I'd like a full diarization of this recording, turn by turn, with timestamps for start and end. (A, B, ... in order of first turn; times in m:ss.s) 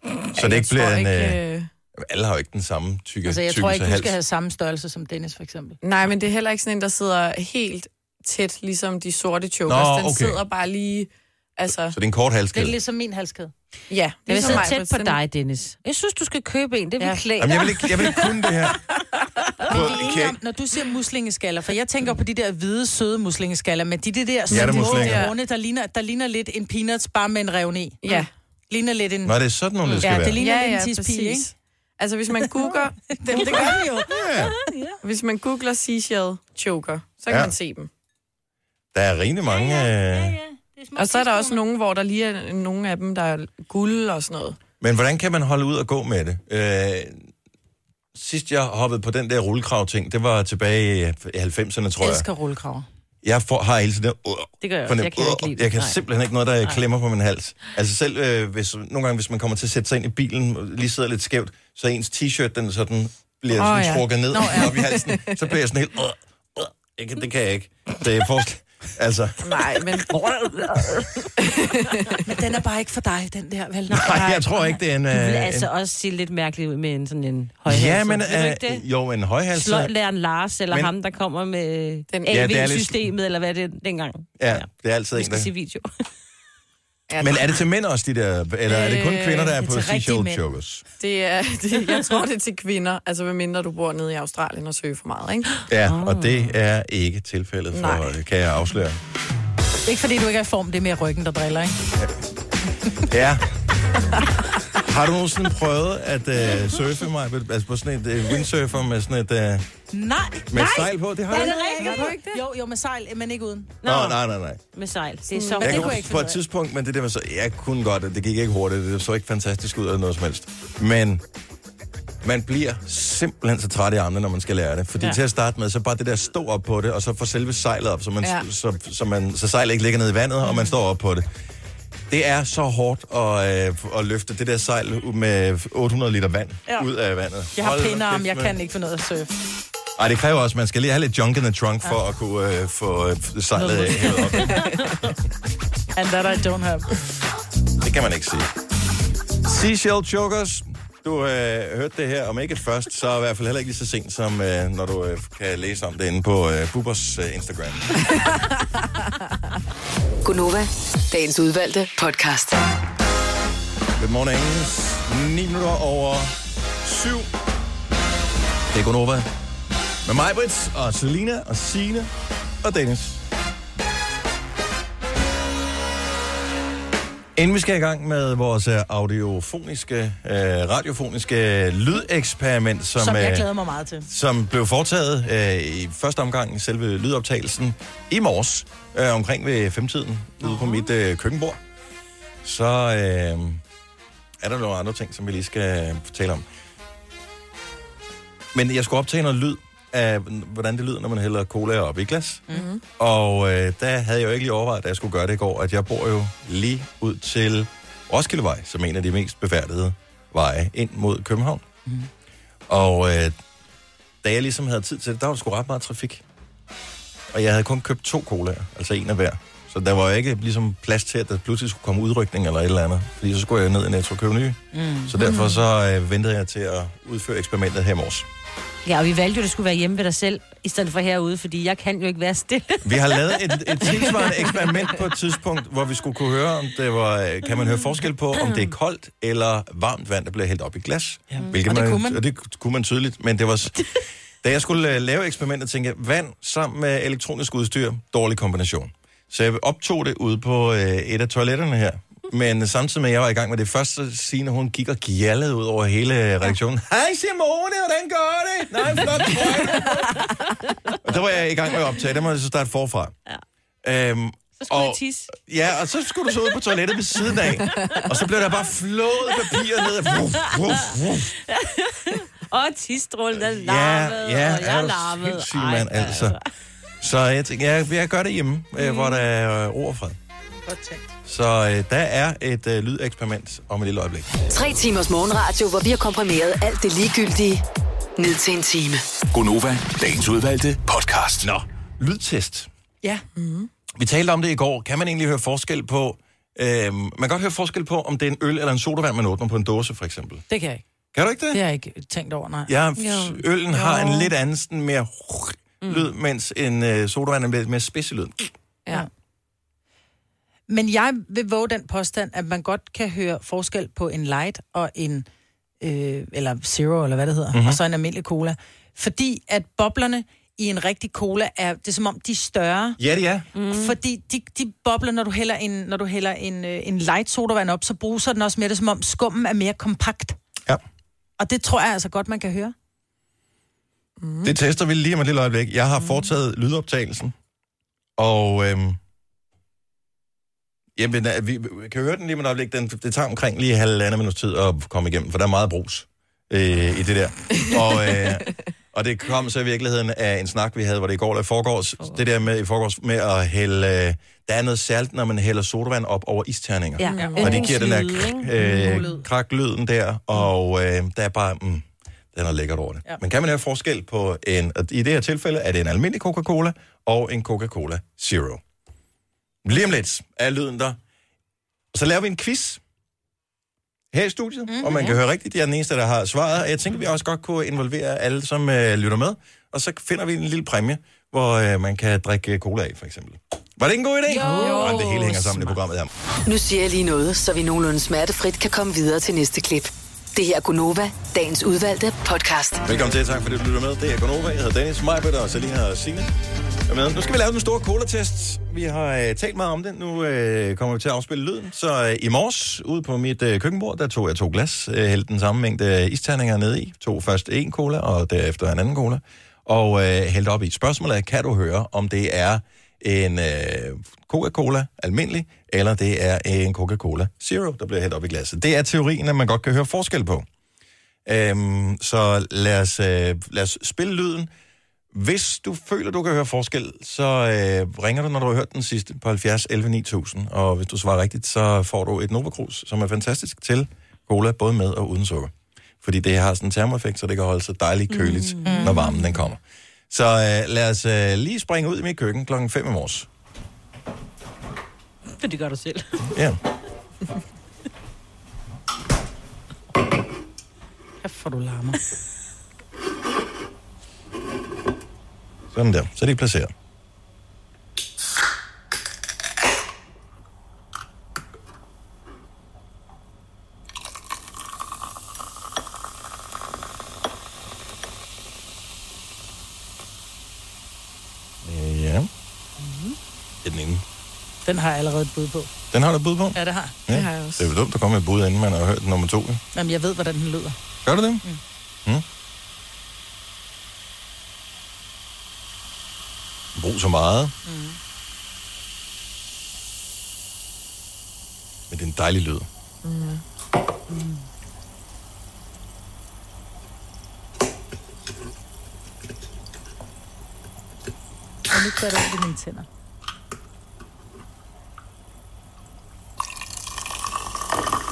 0:00.3-0:01.7 A
0:00.3-0:01.4 B
0:02.0-0:04.2 B
0:03.2-0:05.8 C
0:05.8-0:12.0 A
0:09.7-0:10.4 B
0:11.9-0:12.8 B
0:12.5-0:13.5 C
0:13.9-0:15.2 A
0:14.3-0:18.3 D
0:17.4-0:18.8 B
0:19.6-0:20.4 B
0:19.7-0:28.1 C
0:24.5-0:25.3 B
0:24.5-0:25.3 A
0:28.0-0:28.3 A
0:28.7-0:29.4 C
0:29.2-0:30.4 B
0:30.0-0:31.5 C
0:30.0-0:33.8 A
0:32.6-0:34.1 C
0:34.1-0:34.6 B
0:34.6-0:35.0 D
0:35.0-0:37.9 A
0:37.3-0:37.6 B
0:38.9-0:40.4 B
0:39.7-0:41.6 C
0:41.0-0:44.6 A
0:44.8-0:47.3 B
0:48.1-0:52.3 B
0:52.0-0:52.9 C
0:53.2-1:09.7 B
0:54.6-0:55.6 C
0:54.9-0:56.0 D
1:03.5-1:05.5 A
1:04.3-1:04.8 C
1:09.4-1:10.1 A
1:10.1-1:11.2 D
1:11.4-1:12.2 A
1:12.2-1:14.4 C
1:13.9-1:18.8 D
1:13.9-1:15.7 B
1:17.7-1:19.9 B
1:19.5-1:25.9 D
1:22.1-1:22.5 A
1:22.3-1:23.1 B
1:24.4-1:25.5 B
1:27.1-1:27.5 A
1:27.2-1:30.8 B
1:28.7-1:29.5 A
1:29.1-1:30.4 C
1:31.0-1:35.5 A
1:35.7-1:39.0 B
1:35.8-1:36.5 D
1:37.7-1:38.1 A
1:39.8-1:41.8 C
1:43.0-1:43.4 B
1:44.8-1:49.7 B
1:49.9-1:53.7 C
1:50.5-1:51.6 B
1:51.3-1:52.3 D
1:51.8-1:52.4 A
1:53.8-1:54.2 D
1:53.8-1:54.6 B
1:54.7-1:56.0 D
1:55.3-1:55.7 A
1:55.6-1:56.4 C
1:55.6-2:01.2 B
2:02.2-2:11.2 B
2:12.1-2:18.6 B
2:17.6-2:19.3 C
2:20.0-2:24.8 B
2:23.6-2:24.6 C
2:26.0-2:26.9 C
2:27.8-2:28.5 B
2:29.4-2:38.0 B
2:40.2-2:42.6 E
2:44.0-2:47.3 B
2:48.7-2:49.3 B
2:50.0-2:52.1 B
2:52.6-2:53.2 B
2:57.4-3:03.5 B
3:03.0-3:04.1 C
3:04.0-3:11.6 B
3:12.4-3:13.6 B
3:14.4-3:16.4 B
3:18.5-3:22.5 B
3:22.5-3:22.8 A
3:23.0-3:31.6 B
3:32.7-3:33.4 B
3:34.2-3:36.2 B
3:37.3-3:48.3 B
3:44.7-3:45.2 C
3:45.2-3:45.6 A
3:48.8-3:54.9 D
3:52.8-4:20.2 B
3:58.4-3:58.7 D
4:01.3-4:02.2 C
4:21.0-4:23.1 B
4:23.8-4:31.4 B
4:24.6-4:25.3 D
4:27.7-4:28.0 D
4:30.5-4:30.8 D
4:31.5-4:36.4 D
4:33.4-4:36.4 B
4:37.0-4:40.2 B
4:38.8-4:39.2 D
4:40.7-4:41.1 C
4:41.3-4:44.3 B
4:44.5-4:47.6 E
4:48.2-4:49.0 E
4:49.3-4:51.5 F
4:51.4-4:52.7 B
4:53.4-4:53.7 A
4:54.0-5:00.4 B
5:00.5-5:00.8 C
5:01.1-5:01.6 B
5:01.5-5:02.7 C
5:02.7-5:08.5 B
5:03.0-5:03.4 D
5:03.7-5:04.3 A
5:10.7-5:15.3 C
5:15.8-5:23.0 C
5:17.5-5:17.8 B
5:23.0-5:23.5 B
5:23.6-5:24.0 D
5:23.7-5:30.4 C
5:31.4-5:32.7 C
5:34.2-5:34.5 A
5:34.4-5:37.4 B
5:38.2-5:39.0 B
5:41.0-6:08.6 B
5:47.6-5:48.5 A
5:57.0-5:59.1 D
5:57.1-5:57.7 C
5:57.2-5:57.6 A
5:58.6-5:59.2 C
6:09.6-6:11.0 B
6:11.9-6:12.8 B
6:14.1-6:26.1 B
6:14.7-6:15.1 C
6:24.3-6:25.2 D
6:24.4-6:24.8 C
6:24.5-6:25.2 A
6:26.5-6:32.8 E
6:32.8-6:36.3 B
6:36.9-7:00.5 B
7:01.3-7:04.5 B
7:05.1-7:23.3 B
7:18.2-7:19.1 D
7:18.6-7:19.0 C
7:25.4-7:26.3 D
7:26.3-7:26.6 B
7:31.2-7:32.0 C
7:35.7-7:36.7 B
7:51.6-7:52.3 B
7:53.6-7:54.0 B
7:54.6-7:55.7 C
7:55.9-7:59.6 B
7:56.6-7:57.0 C
7:57.1-7:57.7 A
7:59.7-8:00.8 C
8:01.0-8:01.4 B
8:06.8-8:07.5 B
8:07.7-8:08.0 C
8:11.9-8:12.7 B
8:13.0-8:13.4 A
8:21.7-8:22.9 C